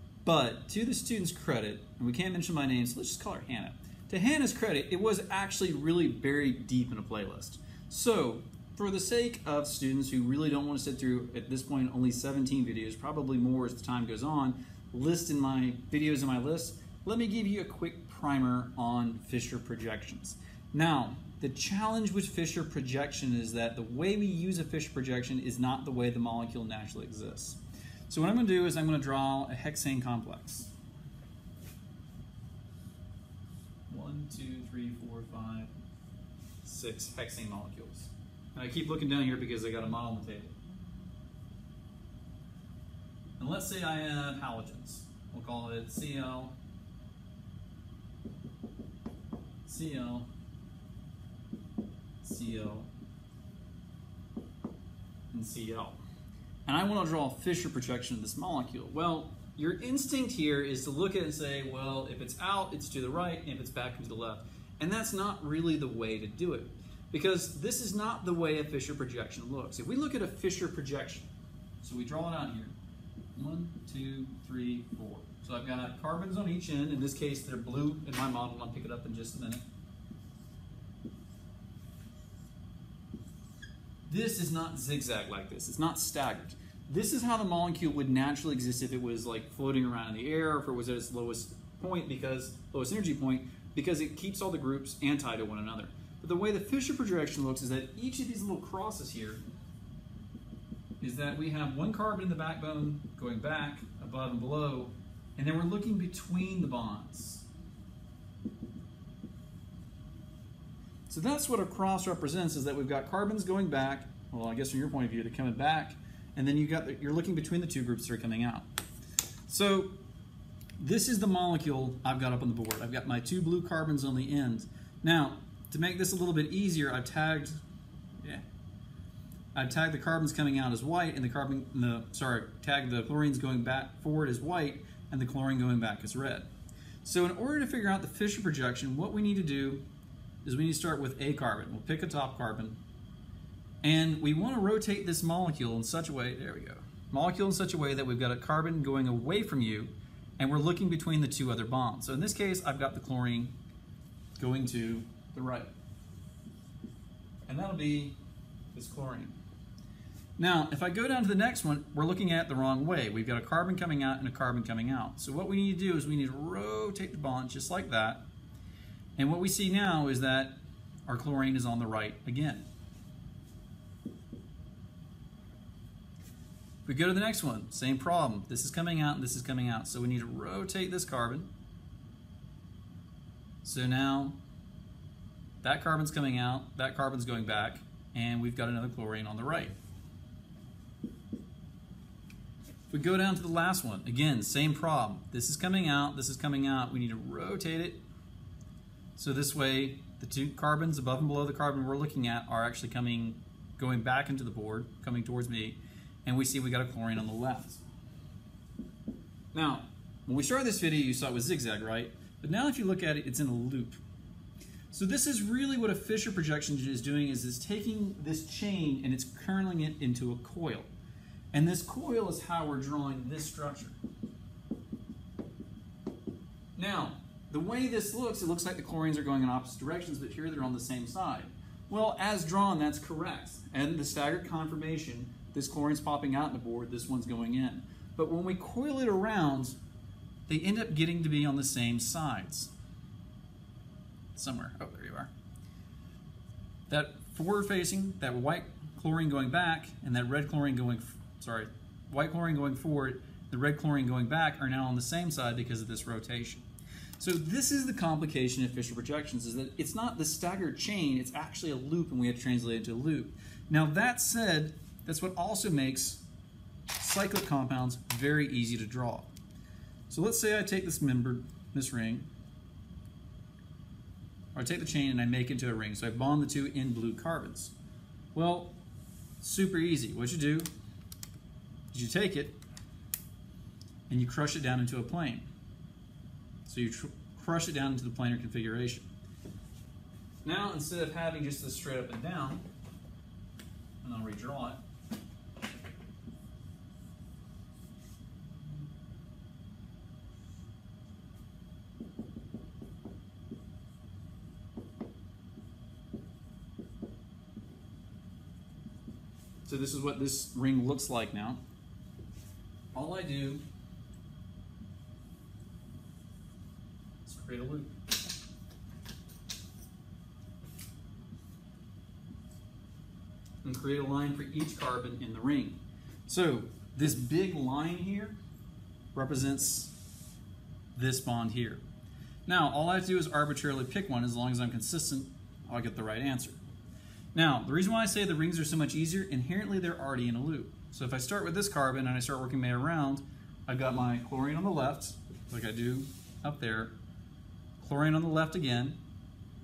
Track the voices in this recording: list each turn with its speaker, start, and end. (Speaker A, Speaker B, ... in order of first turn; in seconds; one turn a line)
Speaker A: 0.2-30.7
Speaker A: 33.9-35.7
Speaker A: 36.6-40.6
Speaker A: 43.4-46.6
Speaker A: 49.6-50.3
Speaker A: 52.2-52.9
Speaker A: 55.3-56.0
Speaker A: 56.7-71.3
Speaker A: 71.8-72.8
Speaker A: 73.3-79.7
Speaker A: 84.1-99.4
Speaker A: 101.0-107.5
Speaker A: 111.1-118.7
Speaker A: 119.5-119.9
Speaker A: 120.8-127.6
Speaker A: 128.2-128.4
Speaker A: 129.6-136.5
Speaker A: 137.0-139.8
Speaker A: 140.4-142.8
Speaker A: 143.8-153.5
Speaker A: 154.4-155.7
Speaker A: 157.5-158.2
Speaker A: 158.7-159.4
Speaker A: 160.4-168.2
Speaker A: 169.2-172.7
Speaker A: 176.9-181.5
Speaker A: 183.6-184.4
Speaker A: 185.6-189.7
Speaker A: 192.9-198.0
Speaker A: 199.2-207.8
Speaker A: 209.5-214.0
Speaker A: 214.9-220.9
Speaker A: 221.5-224.0
Speaker A: 226.8-239.8
Speaker A: 240.5-242.7
Speaker A: 244.3-245.3
Speaker A: 246.9-256.7
Speaker A: 257.2-266.2
Speaker A: 267.0-269.3
Speaker A: 270.1-272.3
Speaker A: 274.6-277.7
Speaker A: 278.3-278.8
Speaker A: 279.4-280.7
Speaker A: 281.9-282.6
Speaker A: 284.1-285.5
Speaker A: 286.7-289.1
Speaker A: 290.4-292.6
Speaker A: 294.0-294.8
Speaker A: 309.6-311.6
Speaker A: 312.9-313.6
Speaker A: 317.2-317.9
Speaker A: 323.6-328.4
Speaker A: 329.1-330.0
Speaker A: 330.9-331.8
Speaker A: 332.5-336.6
Speaker A: 337.3-346.9
Speaker A: 347.8-349.0